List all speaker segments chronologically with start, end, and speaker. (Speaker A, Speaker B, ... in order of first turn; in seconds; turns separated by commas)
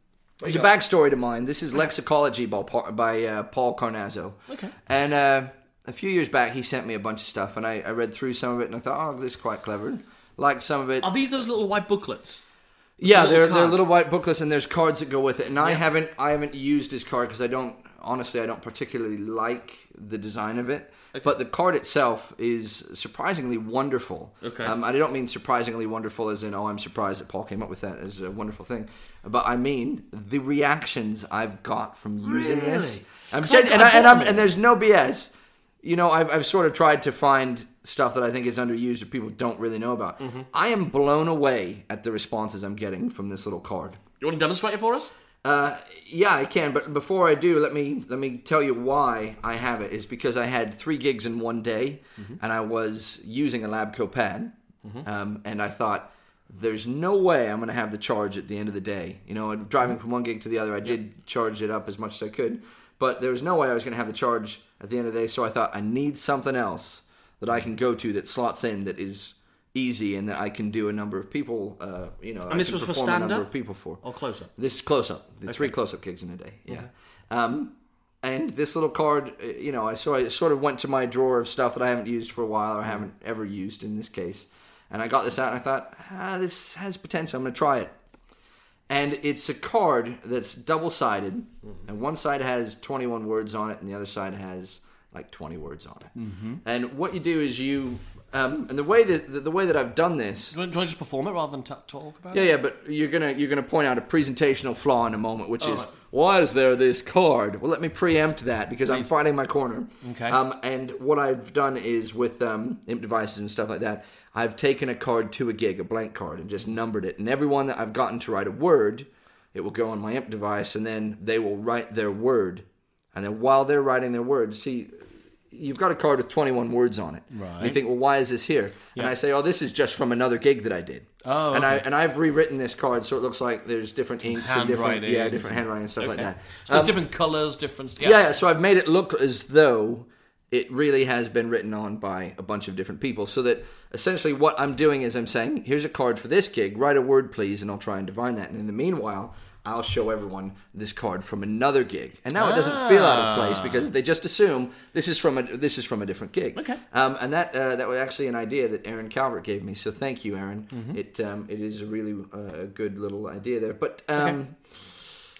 Speaker A: 0.4-11.1, Speaker B: 11.0-12.4, Speaker A: 13.0-35.3, Speaker B: 13.1-13.8, Speaker B: 24.4-24.7, Speaker B: 32.2-34.5, Speaker A: 35.8-44.0, Speaker B: 40.2-40.5, Speaker B: 44.2-45.1, Speaker A: 45.4-74.0, Speaker B: 72.5-73.5, Speaker B: 74.0-74.5, Speaker A: 74.6-87.9, Speaker A: 88.9-100.6, Speaker B: 96.2-96.6, Speaker B: 100.5-102.5, Speaker A: 102.3-124.9, Speaker B: 105.6-105.9, Speaker B: 110.0-110.4, Speaker A: 125.5-137.0, Speaker B: 127.3-127.8, Speaker B: 131.2-131.8, Speaker B: 134.3-138.2, Speaker A: 138.0-164.6, Speaker B: 152.4-153.8, Speaker B: 160.7-161.0